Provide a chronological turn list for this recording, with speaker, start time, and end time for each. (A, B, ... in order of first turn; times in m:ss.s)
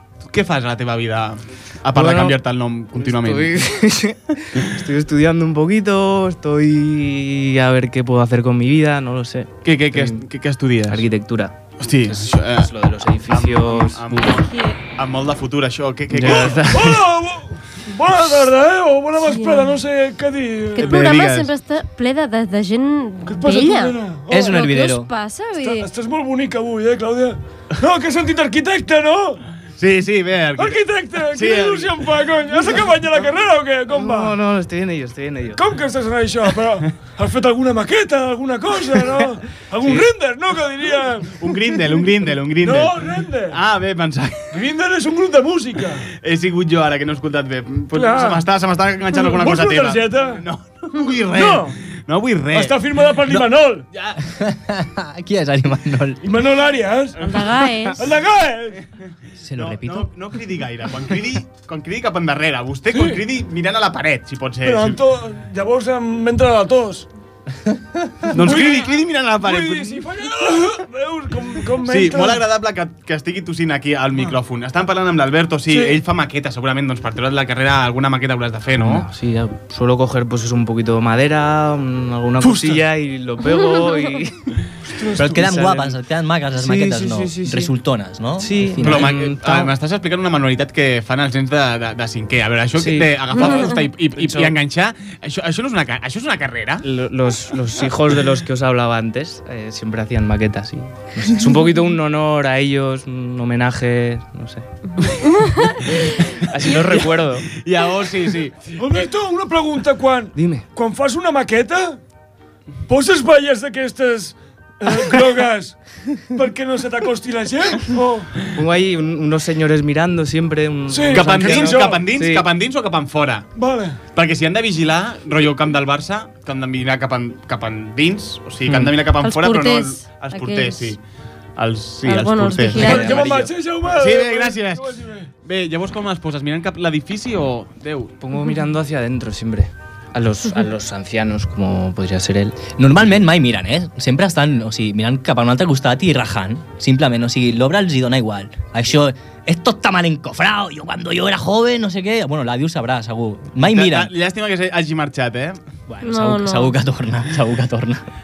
0:00.3-0:03.6 A
0:01.9-0:02.4 B
0:03.0-0:10.2 B
0:09.6-0:11.0 A
0:10.9-0:14.3 B
0:11.8-0:12.7 A
0:13.3-0:16.7 A
0:14.4-0:14.7 C
0:16.1-0:17.0 B
0:16.3-0:20.9 D
0:19.2-0:19.7 C
0:20.8-0:25.9 C
0:20.8-0:21.5 A
0:23.3-0:24.5 D
0:24.3-0:25.1 E
0:25.6-0:29.4 D
0:29.8-0:30.8 A
0:30.6-0:34.4 D
0:31.3-0:32.0 A
0:33.9-0:35.6 B
0:35.6-0:41.5 D
0:41.4-0:44.5 A
0:42.6-0:43.6 D
0:44.5-0:46.0 D
0:46.2-0:54.2 A
0:47.9-0:48.4 D
0:49.2-0:50.4 D
0:51.3-0:51.7 D
0:52.5-0:53.9 D
0:54.2-0:56.2 E
0:56.2-0:57.2 D
0:57.2-0:57.5 A
0:57.2-0:58.0 C
0:58.0-0:58.8 D
0:59.4-1:00.1 E
0:59.6-1:05.0 A
1:02.9-1:03.2 D
1:04.6-1:07.1 D
1:08.3-1:10.0 A
1:08.3-1:12.4 D
1:11.8-1:19.1 A
1:15.7-1:16.0 D
1:18.8-1:24.4 B
1:22.4-1:22.8 A
1:25.0-1:25.3 D
1:25.2-1:29.2 E
1:25.3-1:26.0 B
1:26.6-1:27.7 B
1:28.4-1:29.7 B
1:28.8-1:36.8 A
1:32.8-1:34.5 B
1:33.4-1:33.8 C
1:36.8-1:44.7 B
1:45.0-1:46.0 C
1:46.5-1:47.5 B
1:46.9-1:48.8 A
1:48.8-1:52.0 D
1:50.4-1:50.7 B
1:52.9-1:55.8 D
1:56.3-1:58.3 D
1:58.6-2:02.5 B
2:00.9-2:02.0 D
2:01.1-2:03.5 A
2:03.6-2:04.0 D
2:04.1-2:11.0 A
2:08.7-2:08.9 B
2:09.2-2:10.9 C
2:11.6-2:13.4 A
2:12.0-2:13.3 C
2:12.7-2:15.3 D
2:12.8-2:13.5 B
2:13.9-2:14.9 A
2:15.4-2:18.1 A
2:18.2-2:22.8 B
2:22.8-2:34.1 E
2:33.7-2:35.6 A
2:35.9-2:38.0 E
2:36.0-2:36.7 C